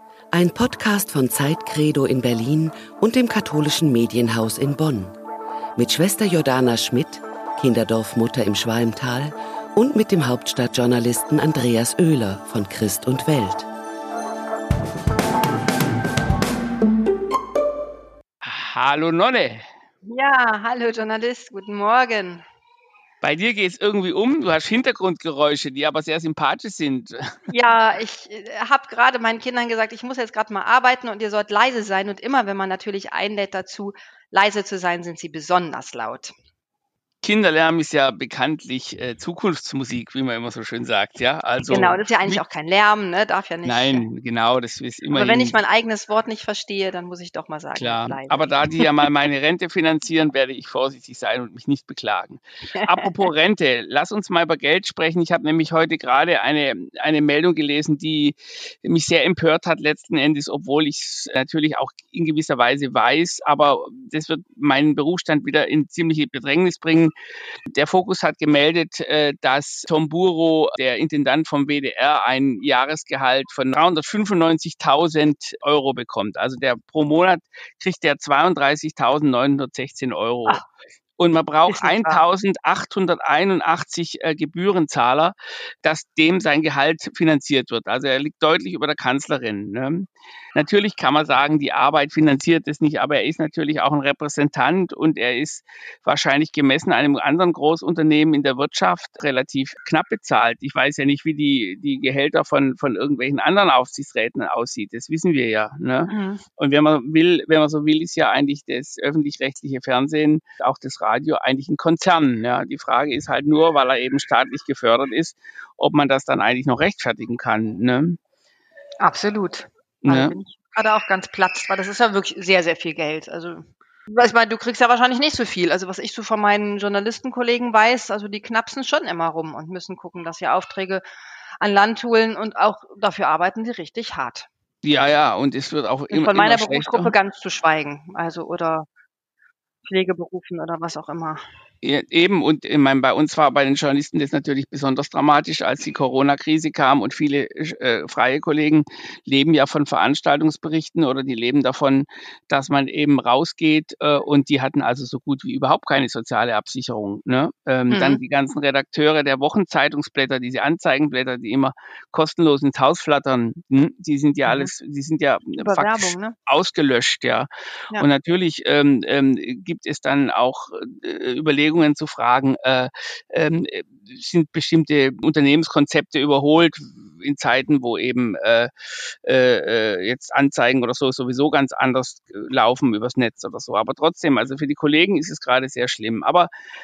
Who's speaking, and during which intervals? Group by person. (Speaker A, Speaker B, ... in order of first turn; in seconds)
Speaker A: 0.3-5.2, 5.8-13.7
Speaker B: 18.4-19.7, 23.2-27.5, 37.2-42.4, 43.6-45.6, 47.8-67.1, 67.7-80.6, 81.2-118.2, 120.0-120.3, 134.8-137.1, 141.8-186.5
Speaker C: 20.1-22.4, 27.5-36.3, 41.7-44.0, 45.1-49.0, 52.8-53.3, 81.7-82.2, 106.1-106.4, 119.0-131.0, 131.6-134.5, 136.1-138.9, 139.8-141.4, 157.9-158.2, 164.4-164.7, 165.6-166.3